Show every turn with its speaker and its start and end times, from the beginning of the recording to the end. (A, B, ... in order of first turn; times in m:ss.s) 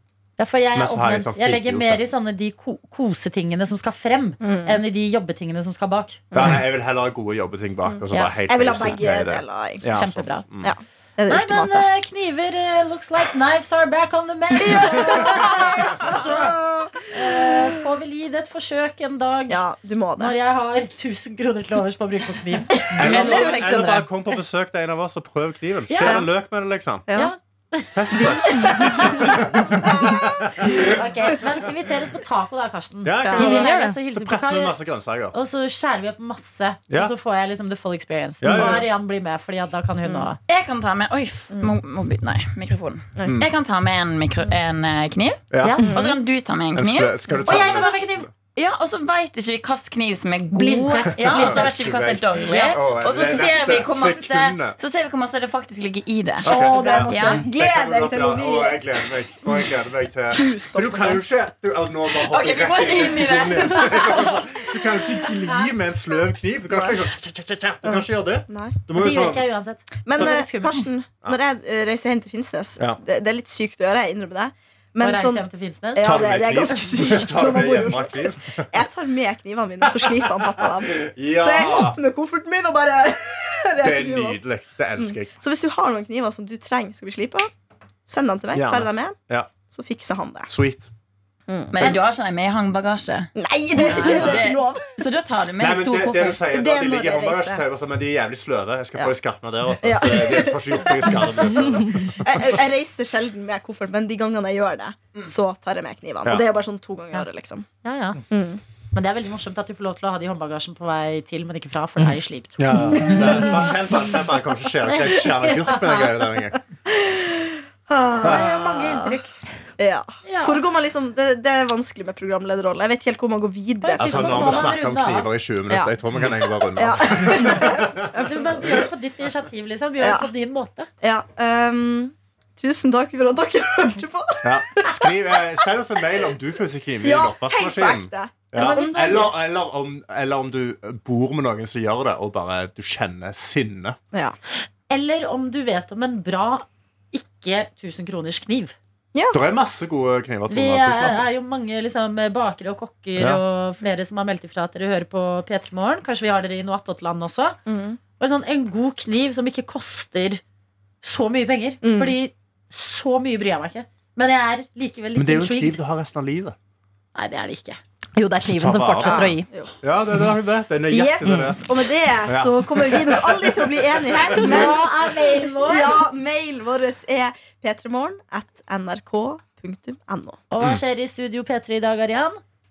0:00.4-0:06.2 A
0:00.7-0:02.0 B
0:04.4-0:04.8 C
0:06.3-0:06.6 C
0:06.3-0:10.7 B
0:07.9-0:09.9 C
0:08.1-0:08.4 A
0:09.9-0:10.5 A
0:10.6-0:11.9 C
0:11.3-0:19.6 A
0:14.6-0:17.6 C
0:19.5-0:20.4 C
0:20.2-0:22.9 A
0:22.8-0:23.6 C
0:22.9-0:24.1 D
0:22.9-0:27.1 B
0:26.0-0:26.3 C
0:27.1-0:27.3 C
0:27.1-0:29.4 A
0:27.9-0:31.4 B
0:28.1-0:30.3 C
0:30.6-0:34.8 A
0:33.0-0:35.4 B
0:33.2-0:33.7 C
0:33.4-0:34.0 D
0:35.3-0:40.4 A
0:38.4-0:38.9 B
0:38.5-0:38.9 C
0:40.0-0:40.3 C
0:40.5-0:48.0 E
0:41.5-0:41.8 C
0:45.5-0:45.9 B
0:45.6-0:46.0 A
0:45.8-0:46.2 C
0:46.7-0:48.3 B
0:47.4-0:48.3 A
0:48.6-0:57.5 E
0:50.5-0:51.9 A
0:50.7-0:51.6 C
0:51.2-0:54.8 B
0:56.4-0:59.0 C
0:56.4-1:09.5 B
1:00.3-1:01.2 C
1:02.2-1:04.4 E
1:06.7-1:07.0 C
1:07.8-1:08.8 C
1:08.9-1:10.9 A
1:10.1-1:24.4 C
1:15.0-1:16.2 A
1:16.0-1:18.7 B
1:19.8-1:22.0 B
1:23.8-1:25.4 B
1:25.0-1:27.5 C
1:28.1-1:30.5 C
1:28.5-1:29.5 B
1:30.5-1:30.9 B
1:31.5-1:32.1 C
1:31.7-1:36.4 E
1:33.4-1:35.0 C
1:34.0-1:34.4 B
1:35.6-1:42.6 B
1:36.5-1:37.6 C
1:39.8-1:47.7 C
1:47.8-1:48.2 A
1:48.3-1:48.6 C
1:48.9-1:53.5 A
1:52.6-1:56.6 B
1:52.9-1:53.6 C
1:54.9-1:56.3 A
1:56.9-1:59.2 C
1:58.2-1:59.4 A
1:59.8-2:04.8 C
2:00.2-2:00.6 A
2:03.8-2:05.3 A
2:04.0-2:08.7 B
2:05.7-2:08.4 C
2:07.4-2:10.9 A
2:10.0-2:10.3 C
2:11.0-2:15.4 C
2:14.4-2:24.0 B
2:17.0-2:19.3 C
2:18.6-2:19.3 A
2:24.9-2:28.8 A
2:29.1-2:29.4 C
2:29.3-2:31.3 B
2:30.5-2:37.6 A
2:33.2-2:33.4 B
2:37.7-2:38.0 C
2:38.2-2:40.4 A
2:41.0-2:45.8 A
2:41.8-2:42.2 C
2:45.2-2:46.6 B
2:47.2-2:47.8 A
2:48.2-2:49.5 D
2:48.4-2:54.8 B
2:49.0-2:49.7 C
2:50.9-2:54.9 C
2:51.2-2:51.5 D
2:54.4-2:56.0 A
2:55.6-3:00.4 C
3:00.5-3:02.4 A